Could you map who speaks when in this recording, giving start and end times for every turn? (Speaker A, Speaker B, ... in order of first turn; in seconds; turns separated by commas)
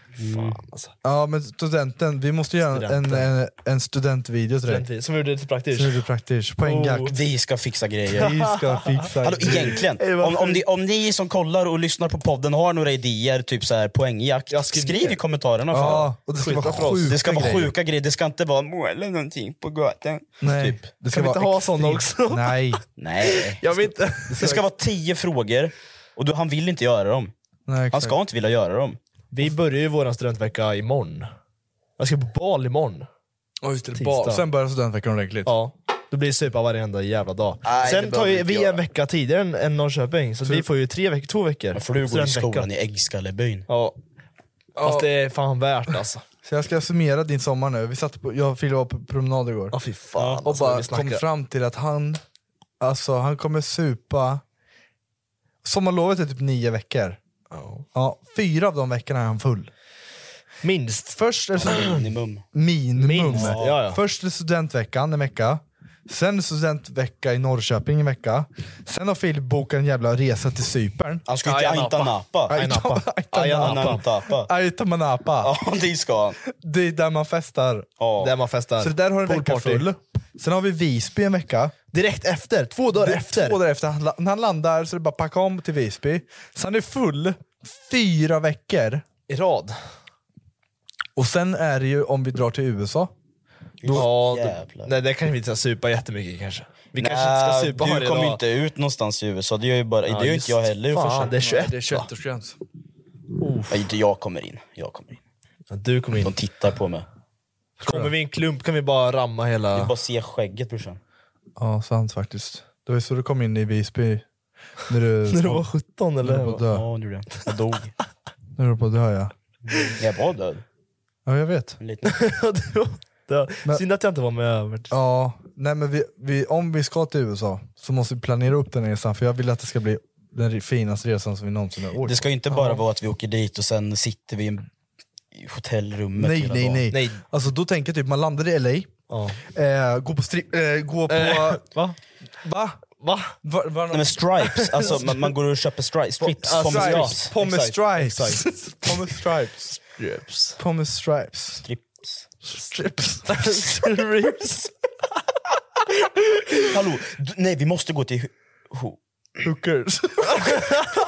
Speaker A: 0.2-0.6, Speaker B: 0.4-0.9, Speaker C: 1.0-4.9, Speaker B: 2.7-3.3, Speaker B: 4.7-6.0, Speaker C: 5.7-7.1, Speaker B: 6.6-7.2, Speaker A: 7.1-8.3, Speaker C: 8.2-9.8, Speaker B: 8.2-10.6, Speaker A: 9.2-16.2, Speaker B: 14.5-15.2, Speaker C: 15.7-17.7, Speaker B: 16.3-17.4, Speaker A: 17.0-20.9, Speaker C: 20.4-22.8, Speaker B: 21.1-22.6, Speaker A: 23.0-27.3, Speaker B: 23.2-24.6, Speaker C: 27.7-28.2, Speaker A: 27.9-29.0, Speaker B: 29.3-31.3, Speaker B: 32.0-33.1, Speaker C: 33.6-35.5, Speaker B: 34.0-34.4, Speaker B: 35.5-42.7, Speaker A: 37.6-38.8, Speaker A: 41.7-43.7, Speaker B: 43.7-44.0, Speaker B: 44.8-46.2, Speaker C: 44.8-45.1, Speaker C: 46.5-49.8, Speaker B: 49.7-51.2, Speaker A: 50.2-50.4, Speaker C: 50.4-52.2, Speaker C: 52.8-54.4, Speaker C: 55.6-57.2, Speaker B: 57.5-57.9, Speaker C: 57.9-59.7, Speaker B: 60.6-61.2, Speaker C: 61.1-61.9, Speaker A: 61.6-62.5, Speaker C: 62.5-71.2, Speaker B: 63.0-64.0, Speaker A: 63.3-63.8, Speaker A: 71.3-72.5, Speaker B: 71.4-74.0, Speaker C: 72.5-75.5, Speaker A: 73.6-74.5, Speaker A: 75.4-76.4, Speaker C: 76.4-77.9, Speaker A: 78.0-78.3, Speaker B: 78.2-79.9, Speaker C: 78.8-81.8, Speaker B: 81.9-83.6, Speaker C: 83.0-89.0, Speaker B: 89.3-89.8, Speaker C: 91.2-93.1, Speaker A: 93.8-94.9, Speaker B: 93.9-98.4, Speaker A: 97.0-101.5, Speaker B: 100.1-102.1, Speaker C: 101.1-102.6, Speaker B: 103.4-103.8, Speaker A: 103.7-105.2, Speaker B: 105.7-106.3, Speaker A: 106.2-107.1, Speaker B: 107.8-109.9, Speaker C: 107.8-108.1, Speaker A: 109.7-111.0, Speaker C: 111.6-114.2, Speaker C: 114.9-115.7, Speaker B: 115.3-116.6, Speaker C: 116.2-116.8, Speaker A: 116.7-117.9, Speaker C: 118.6-119.3, Speaker A: 119.7-120.6, Speaker C: 121.3-121.8, Speaker A: 121.8-122.2, Speaker B: 122.0-124.9, Speaker C: 124.9-132.8, Speaker A: 132.1-134.7, Speaker A: 135.3-136.9, Speaker C: 136.2-139.0, Speaker B: 136.9-137.2, Speaker B: 139.1-139.4, Speaker C: 139.5-141.7, Speaker B: 141.1-141.9, Speaker C: 142.4-142.8, Speaker B: 143.0-143.3, Speaker C: 143.4-144.2, Speaker A: 143.9-147.3, Speaker B: 144.6-145.3, Speaker B: 146.2-149.0, Speaker C: 146.6-149.8, Speaker B: 149.8-150.6, Speaker C: 150.6-151.7, Speaker A: 151.6-152.3, Speaker B: 152.5-154.7, Speaker C: 152.7-153.5, Speaker A: 156.5-159.0, Speaker C: 159.4-160.6, Speaker B: 160.5-160.8